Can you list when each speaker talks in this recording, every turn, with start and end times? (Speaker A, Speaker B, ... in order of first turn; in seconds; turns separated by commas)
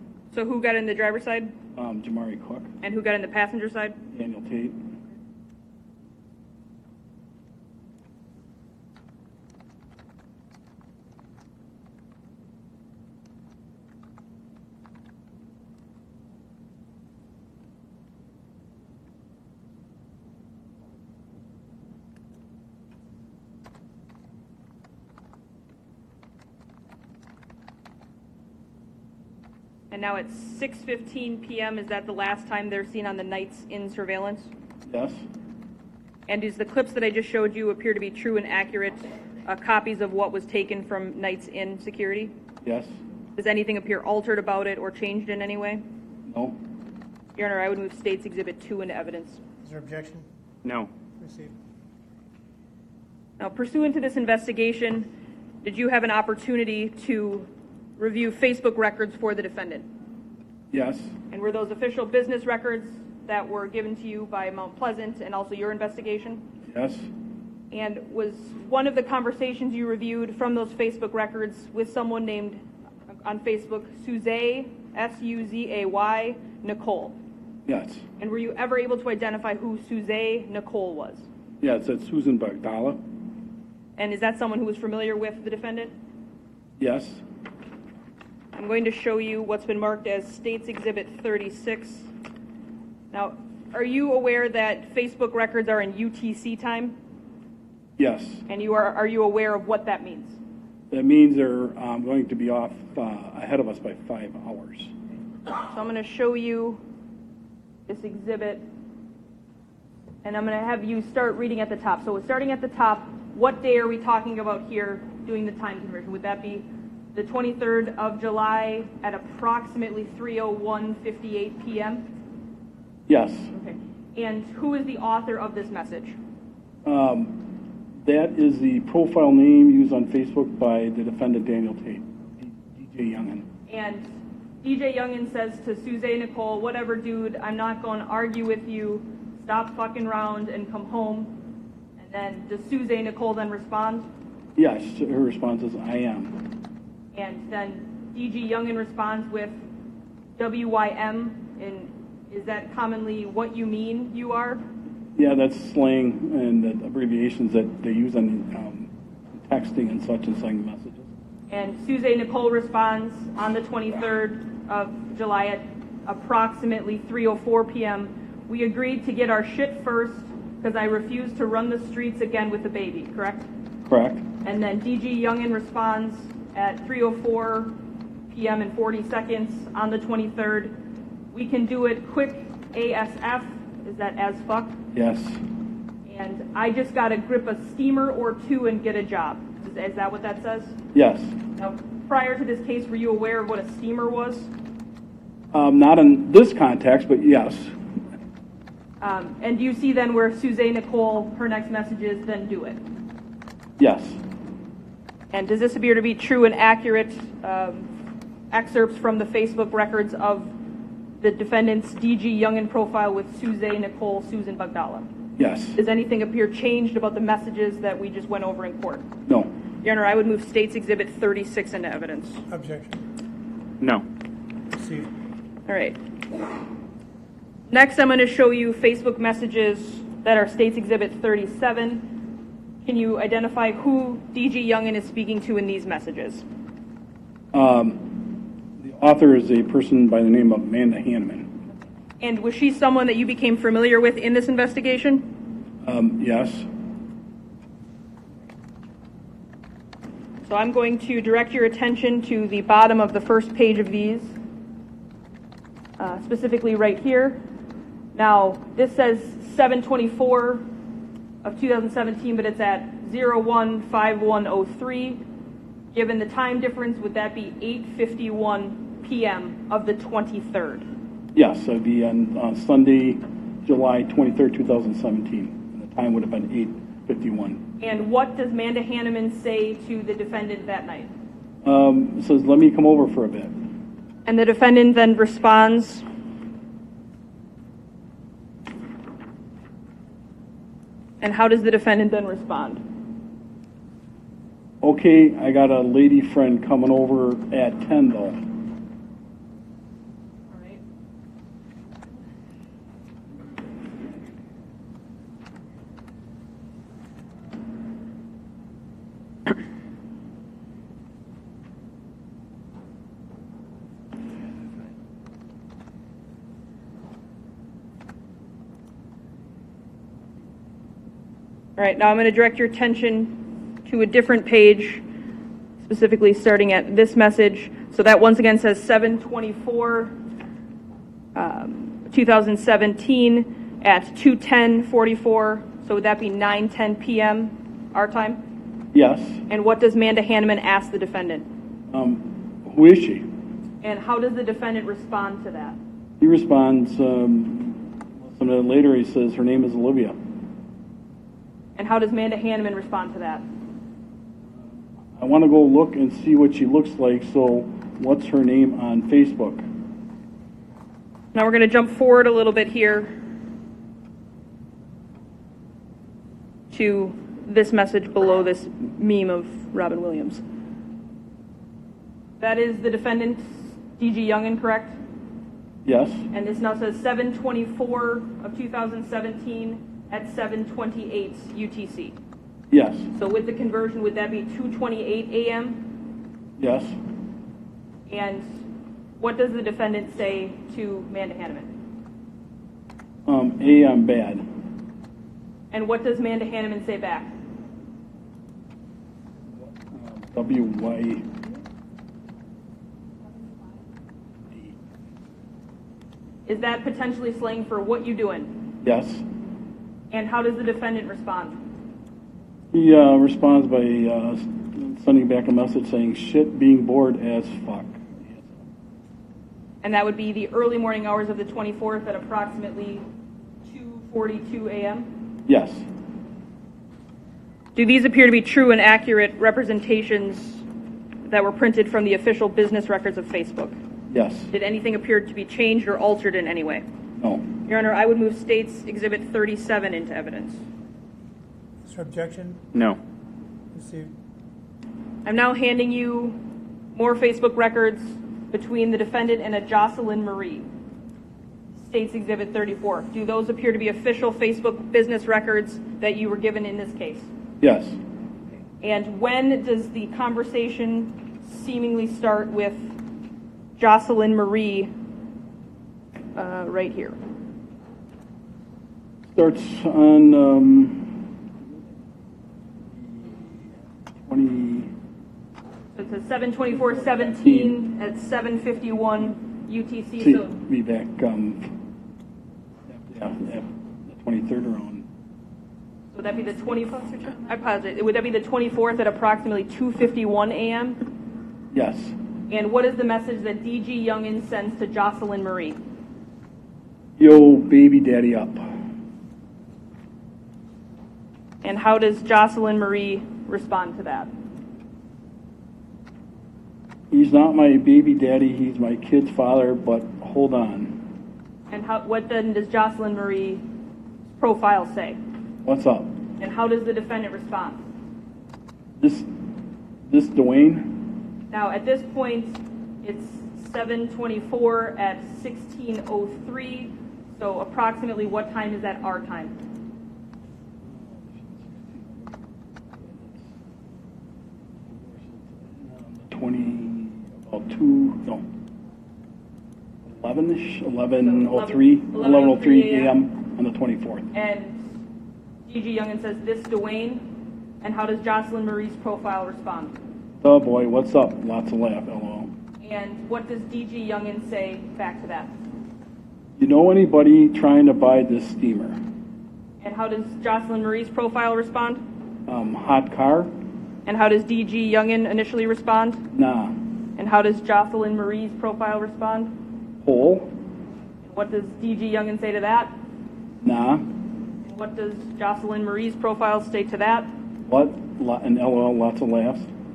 Speaker A: 0.3-1.5, Speaker B: 1.7-2.7, Speaker A: 2.8-4.0, Speaker B: 4.1-4.8, Speaker A: 29.9-34.5, Speaker B: 34.9-35.2, Speaker A: 36.3-42.3, Speaker B: 42.6-43.0, Speaker A: 43.4-45.8, Speaker B: 46.3-46.6, Speaker A: 47.4-49.4, Speaker C: 49.6-50.2, Speaker C: 51.2-51.5, Speaker A: 53.4-55.1, Speaker A: 55.6-59.9, Speaker B: 60.7-61.1, Speaker A: 61.3-66.4, Speaker B: 66.7-67.1, Speaker A: 67.7-72.6, Speaker A: 73.2-77.2, Speaker B: 77.7-78.0, Speaker A: 78.2-81.3, Speaker B: 81.6-83.0, Speaker A: 84.0-85.9, Speaker B: 86.8-87.2, Speaker A: 88.5-92.1, Speaker A: 93.1-97.0, Speaker B: 98.0-98.5, Speaker A: 98.5-100.4, Speaker B: 100.9-104.9, Speaker A: 105.7-106.8, Speaker A: 107.9-108.7, Speaker A: 110.2-122.0, Speaker B: 123.1-123.5, Speaker A: 123.5-126.2, Speaker B: 126.8-127.5, Speaker B: 128.0-133.5, Speaker A: 133.7-134.1, Speaker A: 134.6-141.3, Speaker A: 142.0-144.1, Speaker B: 144.6-146.4, Speaker A: 147.2-149.6, Speaker A: 150.4-154.6, Speaker B: 155.2-161.1, Speaker A: 161.5-173.5, Speaker B: 173.8-174.3, Speaker A: 174.4-177.8, Speaker A: 178.3-180.8, Speaker A: 181.3-184.8, Speaker B: 184.9-185.4, Speaker A: 186.1-190.8, Speaker B: 190.9-191.4, Speaker A: 191.6-194.5, Speaker B: 195.5-197.8, Speaker A: 199.0-202.8, Speaker B: 203.8-204.2, Speaker A: 205.3-207.9, Speaker A: 208.5-210.5, Speaker A: 211.2-215.1, Speaker B: 215.4-215.8, Speaker A: 215.8-219.1, Speaker B: 219.3-219.5, Speaker A: 219.8-222.4, Speaker C: 222.5-223.0, Speaker C: 224.7-225.1, Speaker A: 225.7-226.0, Speaker A: 227.7-232.1, Speaker A: 232.8-236.4, Speaker B: 237.5-241.6, Speaker A: 242.2-245.3, Speaker B: 245.8-246.7, Speaker A: 250.5-254.3, Speaker A: 256.0-257.4, Speaker A: 258.1-260.6, Speaker A: 261.4-265.2, Speaker A: 265.9-270.9, Speaker B: 271.4-277.6, Speaker A: 277.8-281.1, Speaker B: 281.6-283.5, Speaker A: 284.3-286.0, Speaker A: 291.2-292.8, Speaker B: 294.8-298.4, Speaker A: 300.5-300.8, Speaker A: 321.8-325.0, Speaker A: 325.8-330.2, Speaker A: 331.4-338.4, Speaker B: 338.9-339.4, Speaker A: 339.5-341.5, Speaker B: 341.9-343.3, Speaker A: 343.8-345.8, Speaker B: 346.2-350.2, Speaker A: 351.8-353.4, Speaker B: 354.5-359.6, Speaker A: 361.3-363.1, Speaker A: 366.7-370.4, Speaker A: 372.4-375.0, Speaker B: 375.9-376.3, Speaker A: 376.3-382.2, Speaker B: 382.7-383.1, Speaker A: 383.1-385.8, Speaker B: 386.6-387.0, Speaker A: 388.1-388.4, Speaker A: 389.2-391.7, Speaker B: 393.3-394.4, Speaker A: 395.7-397.3, Speaker B: 399.5-401.3, Speaker B: 404.5-404.8, Speaker A: 406.5-408.5, Speaker B: 408.8-409.2, Speaker A: 410.1-411.6, Speaker B: 412.7-418.6, Speaker A: 419.8-423.1, Speaker A: 423.7-425.1, Speaker B: 425.5-425.9, Speaker A: 427.8-430.6, Speaker A: 431.3-433.8, Speaker B: 434.1-434.5, Speaker A: 434.5-436.8, Speaker B: 437.2-437.5, Speaker A: 437.7-440.6, Speaker C: 441.9-442.6, Speaker C: 443.7-444.1, Speaker A: 445.2-446.4, Speaker A: 446.9-450.7, Speaker A: 451.8-457.3, Speaker B: 457.6-458.0, Speaker A: 458.8-462.9, Speaker A: 463.8-464.9, Speaker A: 466.4-467.2, Speaker B: 469.3-471.2, Speaker B: 472.9-474.9, Speaker A: 475.9-480.5, Speaker B: 476.7-477.8, Speaker B: 480.2-481.7, Speaker B: 482.9-485.1, Speaker A: 486.1-491.0, Speaker B: 491.7-492.1, Speaker A: 492.5-495.8, Speaker B: 497.2-498.7, Speaker A: 501.6-504.3, Speaker B: 507.1-511.0, Speaker A: 511.7-513.6, Speaker A: 514.4-515.2, Speaker B: 515.6-516.1, Speaker A: 516.4-517.8, Speaker B: 519.0-519.3, Speaker B: 520.1-521.0, Speaker A: 521.5-529.6, Speaker B: 530.8-533.5, Speaker B: 534.7-538.5, Speaker B: 540.0-544.3, Speaker A: 541.2-543.1, Speaker A: 544.3-544.8, Speaker A: 545.7-547.2, Speaker A: 547.8-550.0, Speaker B: 550.4-552.5, Speaker A: 552.8-555.5, Speaker B: 556.6-559.0, Speaker A: 559.8-562.0, Speaker B: 562.5-563.5, Speaker A: 564.1-566.2, Speaker B: 566.3-566.8, Speaker A: 567.2-569.5, Speaker B: 570.0-570.5, Speaker A: 571.2-572.9, Speaker B: 573.6-574.1, Speaker A: 574.6-577.3, Speaker B: 577.7-579.7